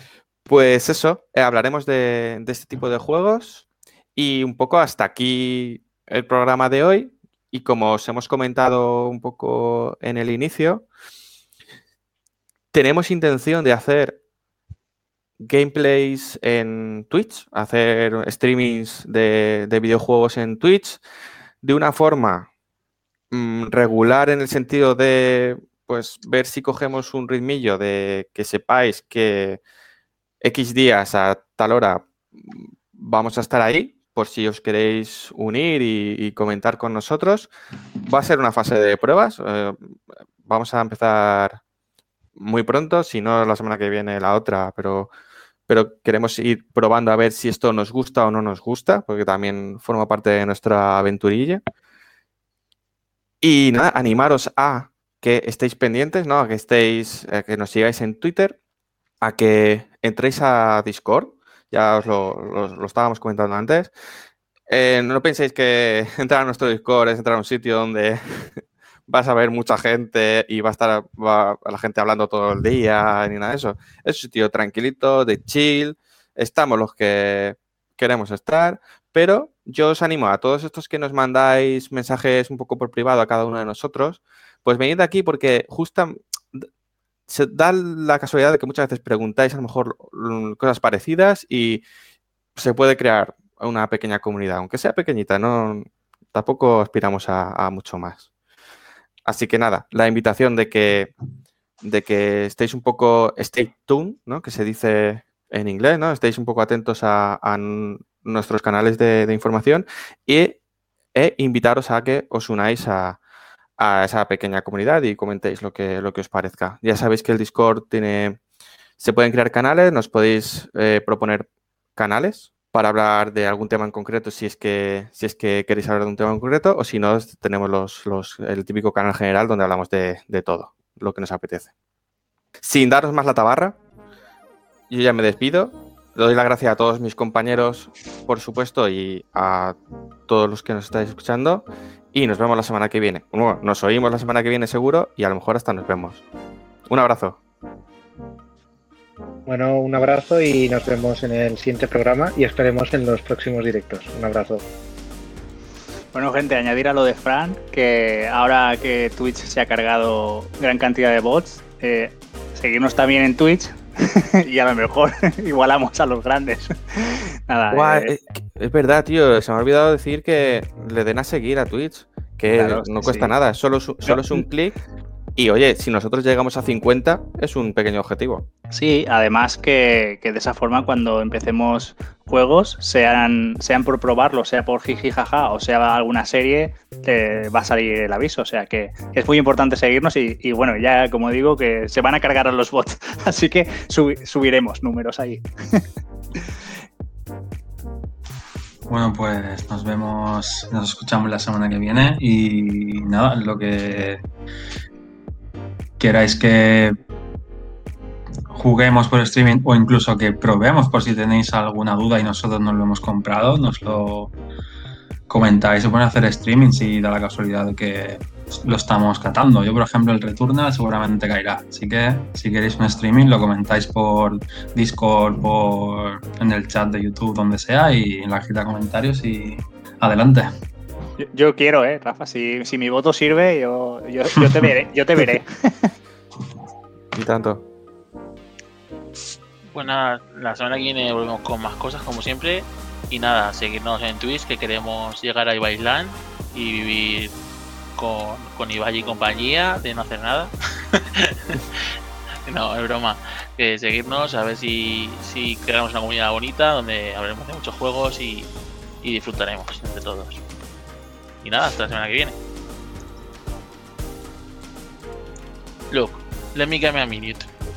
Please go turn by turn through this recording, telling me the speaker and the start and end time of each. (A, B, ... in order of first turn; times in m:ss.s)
0:00.4-0:10.9 A
0:12.7-0:14.2 A
0:15.4-0:21.0 A
0:21.6-0:22.5 A
0:23.3-0:29.6 A
0:30.4-0:37.5 A
0:38.0-0:41.6 A
0:42.4-0:45.1 A
0:45.7-0:51.6 A
0:53.4-0:58.6 A
0:59.2-1:03.9 A
1:04.7-1:26.7 A
1:27.3-1:31.8 A
1:32.6-1:38.2 A
1:39.2-1:41.1 A
1:41.8-1:50.6 A
1:51.1-1:53.2 A
1:53.8-1:58.4 A
1:59.0-2:11.7 A
2:12.6-2:13.8 A
2:14.9-2:19.8 A
2:20.3-2:26.2 A
2:26.9-2:27.4 A
2:29.4-2:34.6 B
2:36.1-2:48.1 C
2:47.7-2:54.8 A
2:52.5-2:53.3 C
2:54.0-2:54.4 C
2:55.4-2:58.4 A
2:58.7-3:15.8 C
3:18.9-3:24.2 D
3:26.0-3:26.9 D
3:28.5-3:34.3 D
3:35.3-3:50.5 D
3:51.2-3:55.9 C
3:57.1-3:57.6 A
3:59.7-4:07.3 E
4:08.0-4:11.8 E
4:12.4-4:18.5 E
4:19.0-4:20.4 E
4:21.4-4:22.4 E
4:25.9-4:27.5 E